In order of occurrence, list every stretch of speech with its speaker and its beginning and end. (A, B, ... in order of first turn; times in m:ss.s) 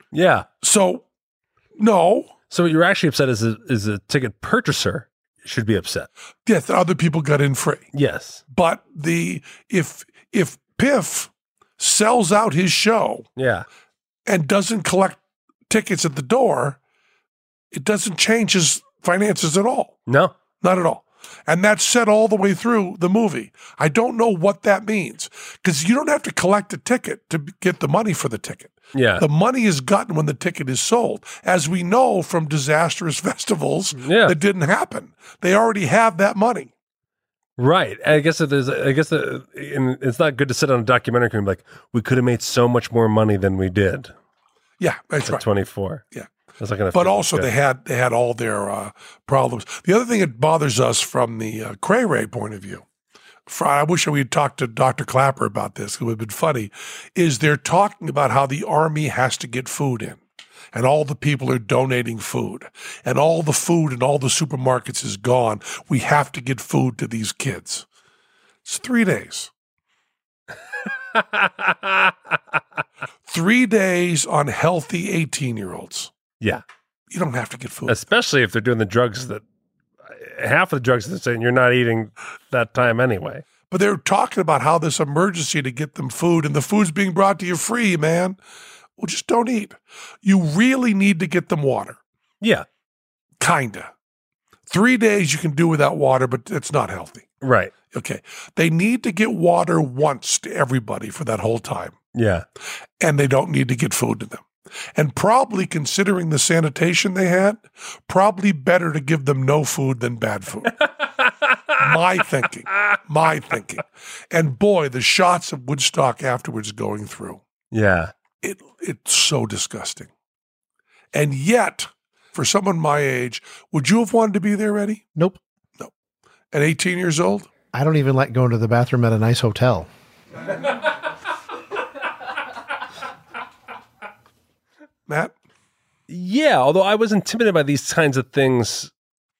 0:00.1-0:00.5 A
0:00.6-0:01.0 B
0:01.8-0:02.3 B
0:02.5-0:06.1 A
0:06.4-0:07.9 B
0:07.9-0:08.4 A
0:08.5-0:13.3 B
0:13.4-0:13.6 A
0:14.2-0:16.8 B
0:17.7-0:20.0 B
0:20.1-0:20.3 A
0:20.6-0:36.7 B
0:28.9-0:29.2 A
0:34.0-0:34.4 A
0:37.6-0:44.1 A
0:44.8-0:45.4 B
0:45.2-0:46.0 A
0:46.6-0:47.5 A
0:46.9-0:52.8 B
0:53.5-1:00.2 B
1:00.7-1:07.8 B
1:08.6-1:09.5 B
1:11.1-1:12.1 A
1:13.3-1:16.1 B
1:17.1-1:18.0 B
1:17.9-1:19.4 A
1:20.1-1:23.4 A
1:23.7-1:28.4 B
1:29.0-1:32.0 B
1:32.4-1:32.6 A
1:33.4-1:33.9 B
1:34.7-1:37.3 B
1:37.4-1:37.7 A
1:37.9-1:42.0 B
1:42.1-1:42.4 A
1:43.0-1:50.8 B
1:51.8-1:57.4 B
1:57.7-1:58.1 A
1:58.4-2:00.1 B
2:01.1-2:05.0 B
2:06.5-2:07.5 B
2:07.7-2:09.9 C
2:15.1-2:15.3 B
2:16.1-2:18.9 A